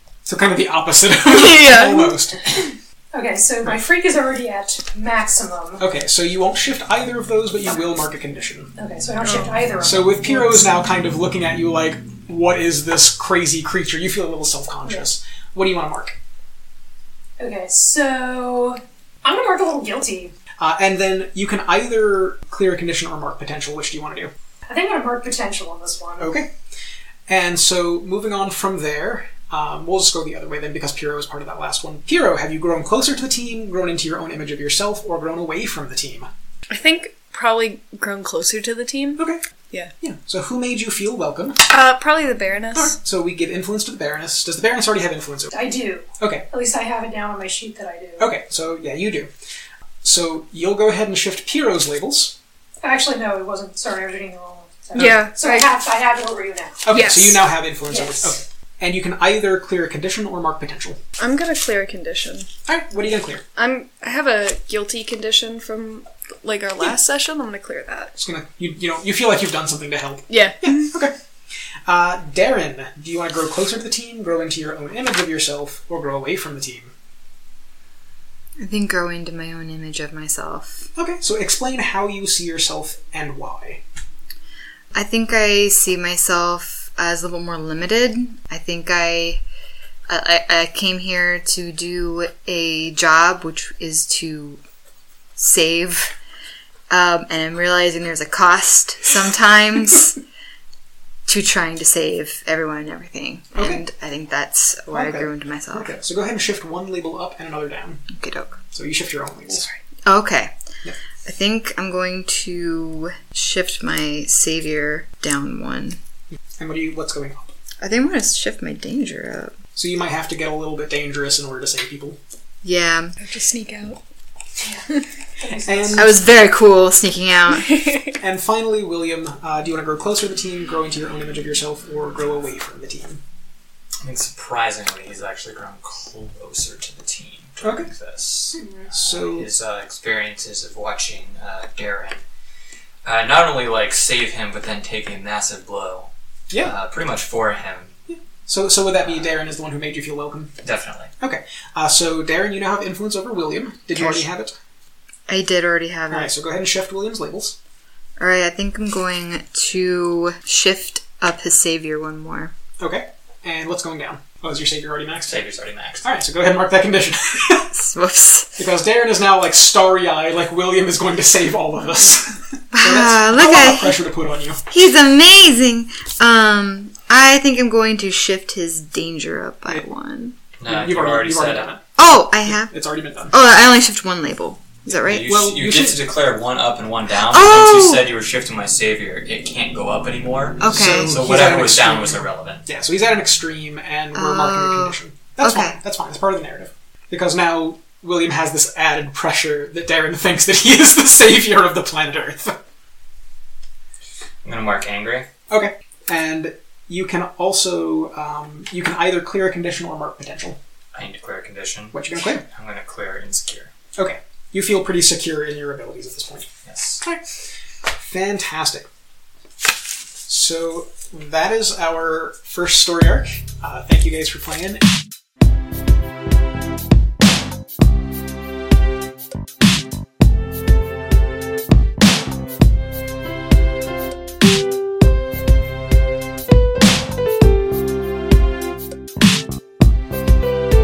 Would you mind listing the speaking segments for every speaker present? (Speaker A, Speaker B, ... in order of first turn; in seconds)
Speaker A: 0.3-2.4, 5.8-8.7, 9.8-16.2, 20.6-24.3, 26.2-26.5, 27.3-36.3, 40.0-41.7, 42.8-45.5, 46.2-46.5, 48.2-49.3, 50.0-52.4, 55.0-55.2, 56.9-61.0, 62.7-63.5, 68.2-71.1, 71.9-76.9, 81.0-83.8, 103.5-103.8, 104.9-108.1, 108.7-109.7, 116.6-117.5, 119.8-122.2, 125.6-126.1, 128.2-133.2, 137.6-137.9, 138.5-139.5, 148.1-150.5, 151.2-154.6, 156.1-157.6, 162.8-165.4, 166.0-167.8, 168.6-174.6, 180.7-181.8, 182.4-183.3, 185.2-186.0, 190.7-202.6, 205.5-210.6, 211.9-212.4, 213.9-216.5, 218.1-218.9, 220.3-224.8
Speaker B: 1.3-2.1, 9.2-9.7, 36.7-39.9, 41.7-43.0, 55.0-55.7, 56.9-57.4, 61.2-62.5, 63.6-68.1, 70.3-70.9, 123.2-124.0, 127.7-128.1
Speaker C: 2.5-5.8, 8.8-10.6, 17.4-20.3, 24.7-26.4, 45.5-48.3, 52.8-56.9, 57.9-58.4, 124.6-124.9, 125.4-126.0
Speaker D: 78.6-80.9, 84.9-89.4, 90.1-94.6, 95.4-96.2, 96.9-100.2, 101.3-106.0, 108.1-108.6, 110.1-110.5, 111.2-116.0, 117.8-119.5, 122.6-123.1, 125.9-127.8, 153.9-154.3, 155.3-156.3, 158.2-162.5, 167.8-168.6, 172.7-174.0, 174.7-180.4, 182.0-182.7, 183.3-185.3, 187.3-188.0, 190.6-191.2, 194.1-195.8
Speaker E: 134.0-142.2, 143.0-148.0, 150.6-151.1, 165.3-166.1, 180.6-181.7, 185.0-192.7, 204.4-205.3, 210.9-213.7, 216.7-217.0